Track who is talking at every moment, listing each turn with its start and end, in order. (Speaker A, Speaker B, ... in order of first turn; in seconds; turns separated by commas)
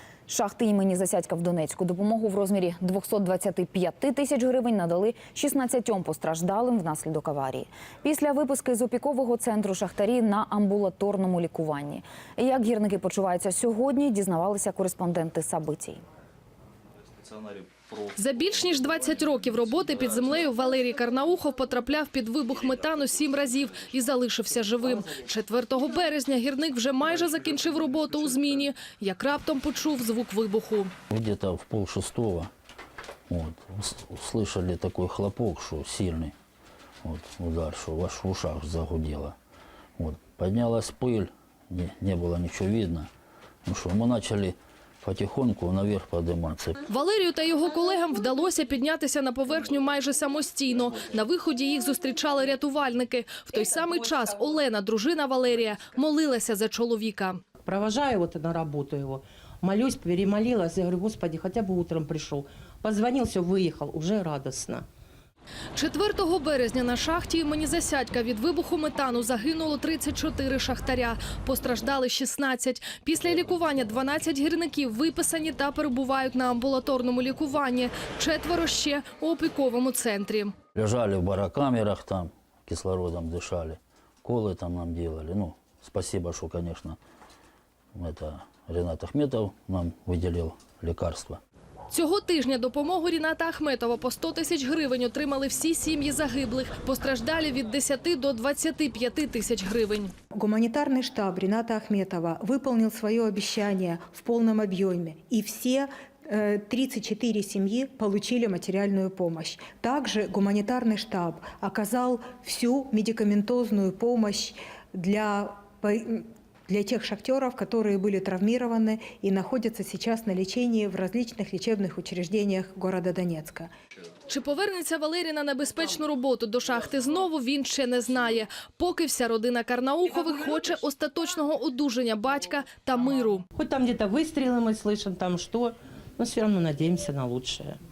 Speaker A: 0.3-16.0, Speaker B: 18.1-30.9, Speaker C: 31.1-32.5, Speaker C: 33.3-36.4, Speaker C: 37.0-39.4, Speaker C: 40.0-43.1, Speaker C: 43.6-46.8, Speaker B: 46.9-57.4, Speaker D: 57.6-64.9, Speaker B: 65.7-80.5, Speaker C: 80.8-87.0, Speaker C: 88.0-91.4, Speaker B: 91.9-100.1, Speaker E: 100.3-123.7, Speaker B: 124.3-133.4, Speaker D: 133.6-137.8